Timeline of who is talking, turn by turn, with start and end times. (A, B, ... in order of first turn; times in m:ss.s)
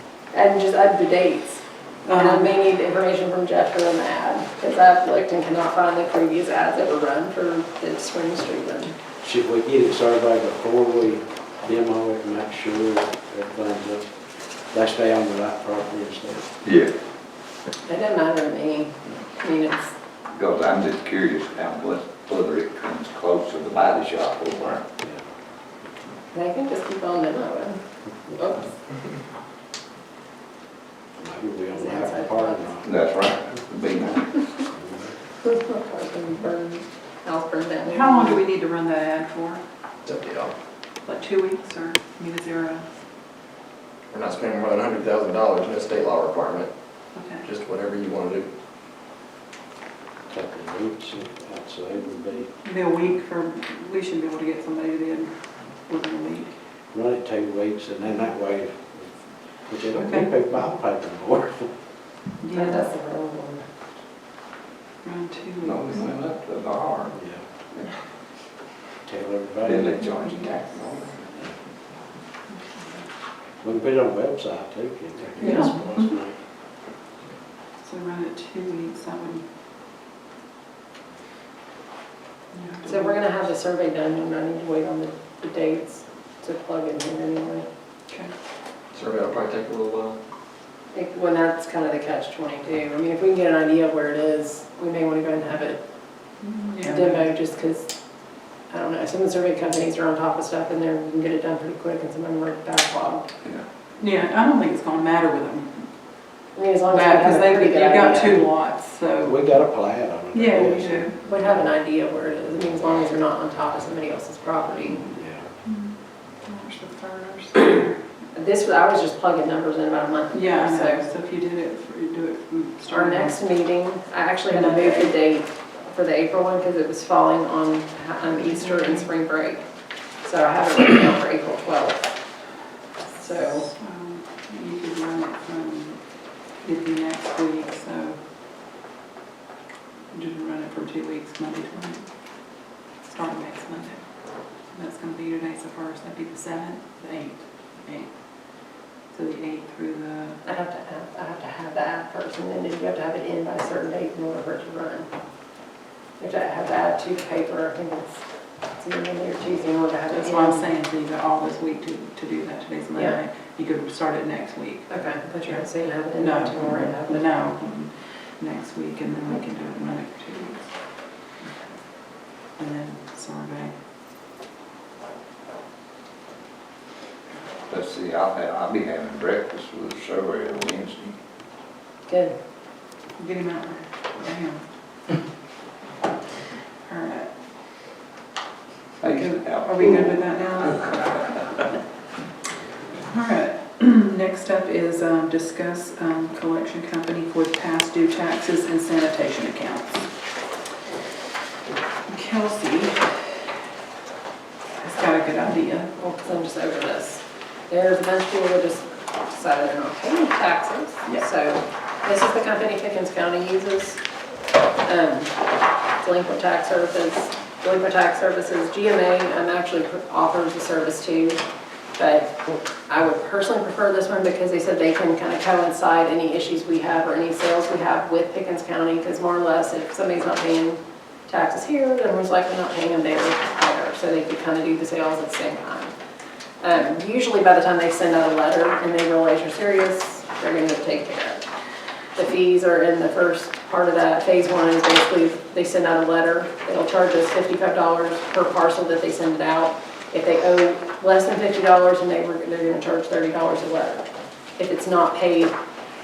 0:00.3-0:01.6 A
0:02.0-0:02.5 B
0:02.1-0:08.9 A
0:09.2-0:14.1 C
0:14.7-0:16.5 C
0:16.6-0:16.9 D
0:17.8-0:19.9 A
0:20.3-0:24.8 D
0:26.3-0:27.8 A
0:28.3-0:28.7 A
0:31.2-0:32.8 C
0:31.7-0:32.8 A
0:32.8-0:34.2 D
0:34.7-0:35.1 C
0:35.4-0:38.4 A
0:37.9-0:39.6 B
0:40.0-0:40.5 E
0:41.0-0:42.8 B
0:44.1-0:46.7 E
0:47.1-0:47.5 B
0:47.4-0:48.5 E
0:50.3-0:52.5 C
0:52.6-0:55.3 B
0:55.8-0:56.5 B
0:56.9-0:59.1 C
0:59.7-1:01.7 C
0:59.9-1:00.3 B
1:02.4-1:02.9 B
1:02.5-1:03.6 A
1:05.0-1:06.0 B
1:05.6-1:07.1 D
1:07.1-1:07.4 C
1:09.0-1:10.0 C
1:09.6-1:11.4 D
1:10.2-1:10.5 B
1:12.5-1:13.0 B
1:13.6-1:16.4 C
1:15.4-1:15.7 A
1:15.4-1:15.7 B
1:17.8-1:19.4 B
1:22.5-1:23.2 B
1:22.8-1:27.6 A
1:28.9-1:30.2 E
1:30.9-1:35.8 A
1:36.4-1:37.2 B
1:36.8-1:37.9 A
1:38.7-1:43.2 A
1:44.0-1:45.9 B
1:46.5-1:48.5 A
1:46.9-1:49.4 B
1:49.2-1:51.0 C
1:50.3-1:51.1 B
1:51.2-1:55.0 A
1:55.1-1:55.4 C
1:55.6-1:57.9 B
1:58.3-2:01.1 A
2:00.3-2:03.4 B
2:02.9-2:09.6 A
2:04.5-2:05.2 B
2:08.4-2:09.1 B
2:10.2-2:12.0 A
2:13.2-2:13.7 A
2:13.3-2:16.0 B
2:16.6-2:18.2 B
2:20.1-2:22.1 B
2:23.0-2:24.0 B
2:24.7-2:28.1 B
2:29.1-2:30.4 B
2:30.4-2:35.1 A
2:36.2-2:38.2 A
2:38.8-2:40.7 A
2:40.1-2:44.9 B
2:44.9-2:47.3 A
2:46.2-2:50.7 B
2:51.4-2:51.7 B
2:52.6-2:53.7 B
2:57.7-3:01.1 D
3:02.1-3:02.3 A
3:03.2-3:04.6 B
3:06.9-3:07.3 B
3:09.0-3:11.3 D
3:09.1-3:10.9 B
3:13.0-3:20.1 B
3:22.1-3:23.1 B
3:24.8-3:25.9 B
3:26.0-3:34.0 A
3:34.8-3:35.4 A
3:36.0-3:41.4 A
3:42.0-3:55.9 A
3:56.6-4:01.4 A
4:02.2-4:14.1 A
4:14.6-4:15.5 A